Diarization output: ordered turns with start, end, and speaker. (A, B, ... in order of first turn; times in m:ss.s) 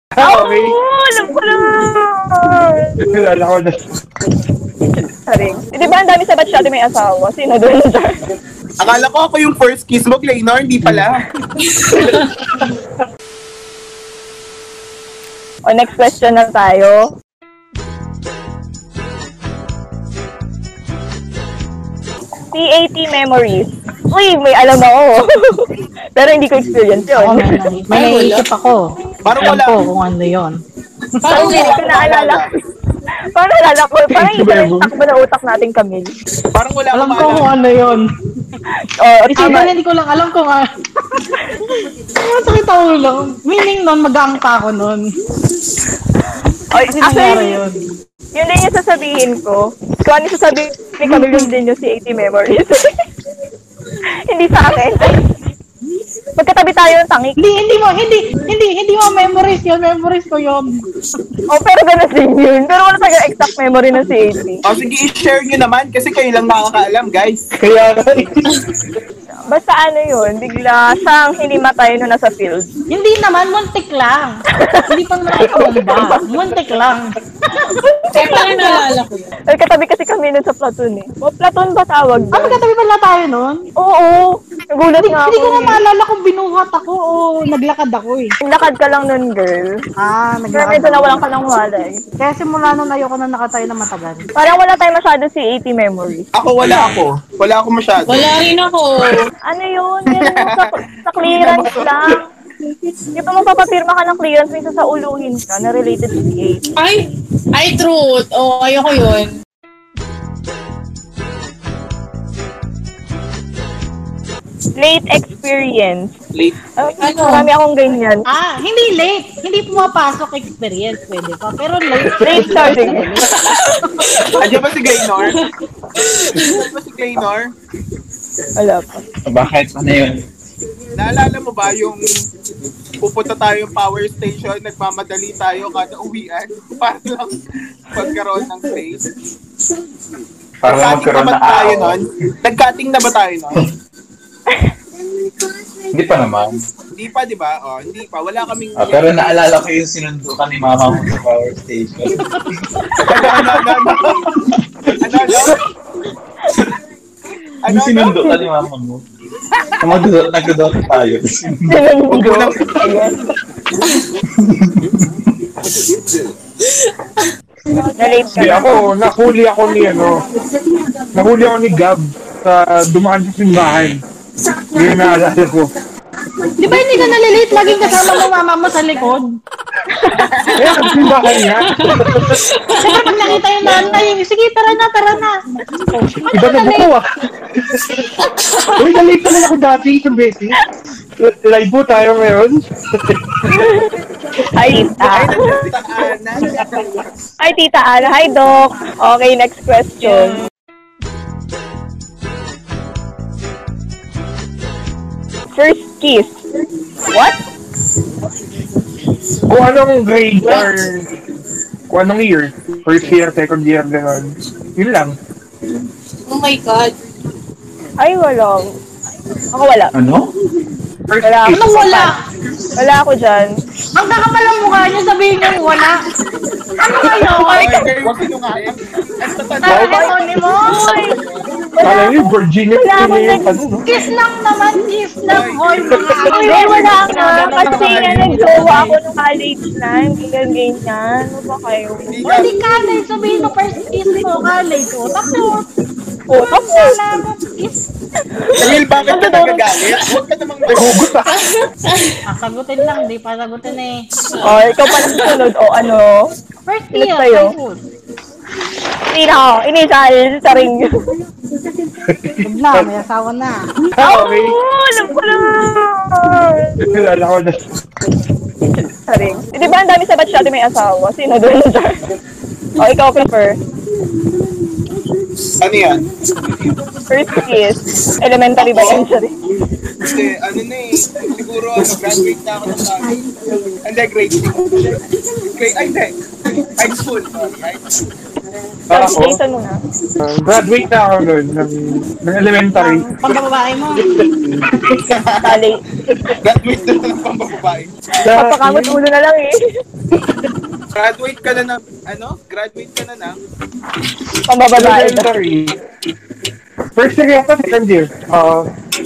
0:00.1-0:00.8 A
0:00.2-0:03.0 B
0:03.0-0:03.8 A
0:05.1-0:08.2 B
0:08.8-0:11.2 C
0:11.8-0:12.3 D
0:15.7-0:17.1 B
0:22.5-0:27.6 B
0:27.2-0:28.8 E
0:27.9-0:28.5 D
0:29.2-0:29.8 C
0:29.4-0:30.6 E
0:31.2-0:31.8 D
0:31.3-0:32.5 C
0:31.6-0:32.5 B
0:33.4-0:36.1 B
0:34.1-0:34.9 A
0:36.5-0:37.6 C
0:36.9-0:38.0 E
0:39.0-0:39.7 B
0:39.3-0:45.0 E
0:46.7-0:47.6 B
0:46.8-0:47.8 E
0:48.4-0:52.9 B
0:51.0-0:51.6 E
0:54.3-0:55.2 B
0:56.4-0:57.4 B
0:57.4-1:00.6 E
1:01.5-1:04.6 B
1:04.6-1:07.4 C
1:07.6-1:08.5 A
1:09.5-1:12.7 B
1:12.9-1:14.3 E
1:14.6-1:14.9 B
1:14.9-1:17.8 E
1:15.4-1:15.7 A
1:15.5-1:16.3 B
1:18.1-1:19.3 D
1:18.2-1:18.7 B
1:19.5-1:22.6 B
1:22.3-1:23.6 E
1:23.8-1:25.8 B
1:25.0-1:28.3 E
1:28.4-1:29.7 B
1:30.0-1:31.2 E
1:30.5-1:31.9 B
1:32.2-1:34.3 E
1:34.4-1:36.9 B
1:36.4-1:38.4 C
1:38.1-1:39.2 D
1:39.5-1:42.2 B
1:40.1-1:42.0 C
1:43.2-1:46.6 B
1:46.8-1:49.4 D
1:54.8-1:56.1 B
1:56.7-1:58.2 B
1:57.0-1:57.5 D
1:58.3-2:03.2 E
2:02.2-2:03.1 B
2:03.5-2:04.5 D
2:04.4-2:05.4 C
2:06.1-2:06.5 D
2:06.4-2:07.5 C
2:08.6-2:09.0 B
2:09.2-2:10.2 F
2:11.0-2:12.2 C
2:13.0-2:17.4 C
2:17.9-2:19.1 C
2:20.6-2:22.0 F
2:20.6-2:23.6 C
2:25.9-2:26.6 F
2:27.0-2:29.4 C
2:28.8-2:32.8 F
2:33.0-2:34.3 C
2:35.0-2:35.6 C
2:37.6-2:38.5 C
2:37.7-2:39.0 F
2:39.8-2:41.8 F
2:41.7-2:43.2 B
2:42.1-2:43.0 C
2:44.4-2:45.1 F
2:45.9-2:46.3 C
2:48.0-2:48.8 B
2:48.4-2:50.2 A
2:51.1-2:54.0 A
2:54.8-2:55.7 A
2:56.6-2:59.4 E
3:00.0-3:00.2 B
3:00.3-3:00.6 C
3:00.5-3:02.4 A
3:01.3-3:04.0 D
3:02.8-3:05.4 E
3:06.1-3:07.1 A
3:06.3-3:06.9 E
3:07.7-3:08.0 A
3:08.4-3:08.9 D
3:08.8-3:10.6 A
3:11.2-3:13.4 A
3:13.5-3:14.0 B
3:14.6-3:15.6 B
3:15.0-3:16.9 C
3:17.4-3:20.4 B
3:25.5-3:26.3 B
3:27.1-3:27.4 B
3:29.5-3:31.1 A
3:31.9-3:35.2 A
3:36.3-3:37.0 D
3:38.0-3:38.7 B
3:39.5-3:39.9 B
3:39.9-3:40.3 F
3:41.1-3:41.6 A
3:41.2-3:42.1 B
3:41.5-3:42.2 E
3:42.8-3:43.5 B
3:44.0-3:46.0 E
3:46.8-3:47.8 E
3:47.2-3:47.8 B
3:47.4-3:50.5 C
3:49.6-3:51.0 E
3:49.6-3:50.1 A
3:49.8-3:51.2 B
3:51.7-3:52.2 B
3:51.8-3:53.9 A
3:52.8-3:53.5 B
3:53.9-3:58.4 E
3:55.2-3:55.7 C
3:56.3-3:59.0 D
3:56.3-4:02.5 B
3:57.7-3:58.2 C
4:02.1-4:02.6 C
4:02.3-4:05.7 E
4:06.3-4:07.0 B
4:06.3-4:07.8 E
4:08.6-4:11.0 C
4:09.0-4:09.7 B
4:10.7-4:11.3 A
4:11.4-4:12.0 D
4:12.3-4:14.0 E
4:14.4-4:15.4 D
4:14.4-4:16.2 B
4:16.7-4:17.8 E
4:16.9-4:17.6 B
4:19.1-4:20.8 B
4:22.0-4:22.9 A
4:22.4-4:23.7 E
4:24.0-4:24.6 A
4:24.0-4:26.8 B
4:26.8-4:27.6 A
4:28.6-4:32.0 B
4:32.8-4:33.6 B
4:35.6-4:36.0 C
4:37.1-4:39.4 B
4:38.6-4:39.1 C
4:40.1-4:43.2 C
4:43.8-4:45.0 C
4:45.5-4:47.8 C
4:48.9-4:49.4 A
4:48.9-4:49.8 B
4:50.2-4:53.0 A
4:52.8-4:54.1 E
4:54.1-4:54.8 A
4:55.1-4:55.6 C
4:55.4-4:55.8 B
4:56.4-4:57.9 C
4:58.2-4:59.0 A
4:58.3-4:59.5 B
5:00.9-5:03.4 C
5:04.5-5:05.3 B
5:04.7-5:05.8 A
5:07.0-5:08.7 A